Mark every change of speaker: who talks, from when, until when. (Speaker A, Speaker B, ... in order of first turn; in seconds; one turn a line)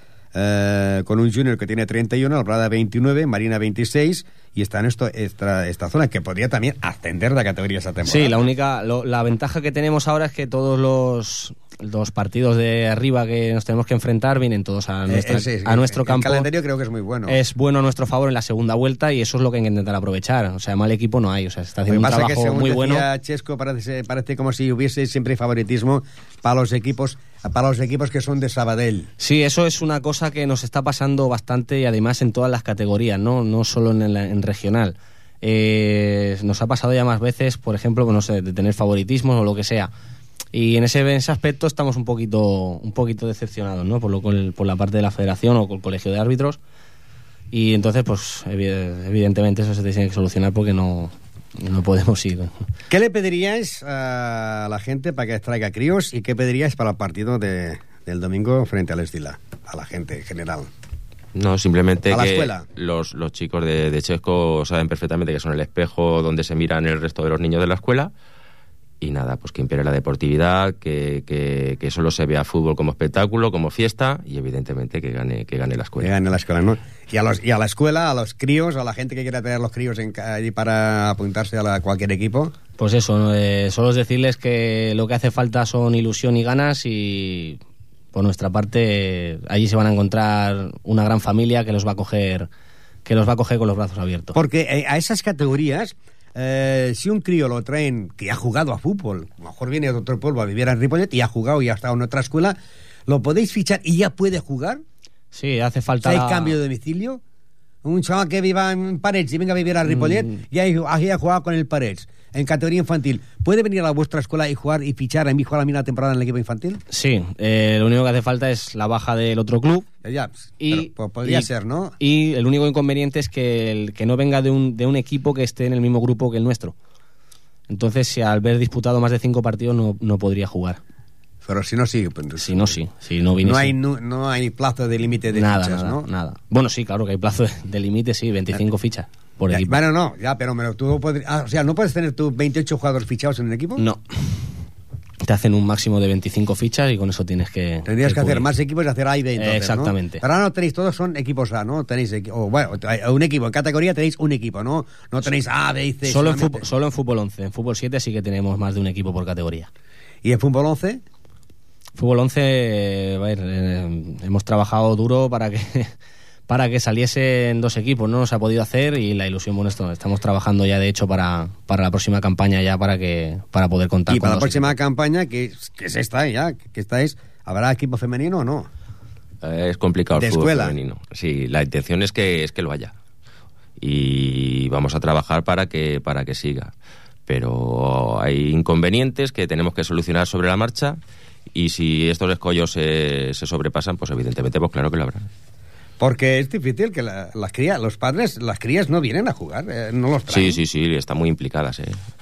Speaker A: 0.3-8.4
Speaker B: 8.1-16.5
Speaker A: 15.1-17.4
Speaker B: 17.3-23.1
Speaker A: 21.9-29.1
Speaker B: 29.2-39.9
Speaker B: 40.5-46.6
Speaker B: 47.5-52.5
Speaker A: 52.9-60.7
Speaker C: 61.4-68.1
Speaker A: 62.1-62.7
Speaker C: 69.0-76.2
Speaker A: 76.0-82.6
Speaker B: 82.8-87.6
Speaker B: 88.1-92.5
Speaker B: 93.0-94.4
Speaker A: 94.3-102.6
Speaker A: 103.1-104.8
Speaker B: 105.3-106.6
Speaker A: 106.0-107.2
Speaker A: 107.8-116.8
Speaker B: 109.9-110.2
Speaker B: 116.9-119.9
Speaker A: 120.0-122.0
Speaker B: 120.6-121.5
Speaker B: 122.0-126.8
Speaker B: 127.7-130.8
Speaker A: 131.4-132.8
Speaker B: 132.4-133.8
Speaker A: 133.4-136.1
Speaker B: 135.3-139.8
Speaker A: 139.5-143.8
Speaker B: 143.8-144.5
Speaker B: 145.2-148.5
Speaker A: 147.9-156.7
Speaker B: 149.4-150.2
Speaker B: 156.1-159.7
Speaker A: 160.2-161.0
Speaker B: 162.0-165.9
Speaker B: 166.5-174.8
Speaker A: 174.1-178.7
Speaker C: 179.4-183.0
Speaker A: 180.2-180.8
Speaker C: 183.8-186.7
Speaker C: 187.3-191.0
Speaker C: 191.5-195.3
Speaker A: 196.0-200.6
Speaker C: 200.3-202.1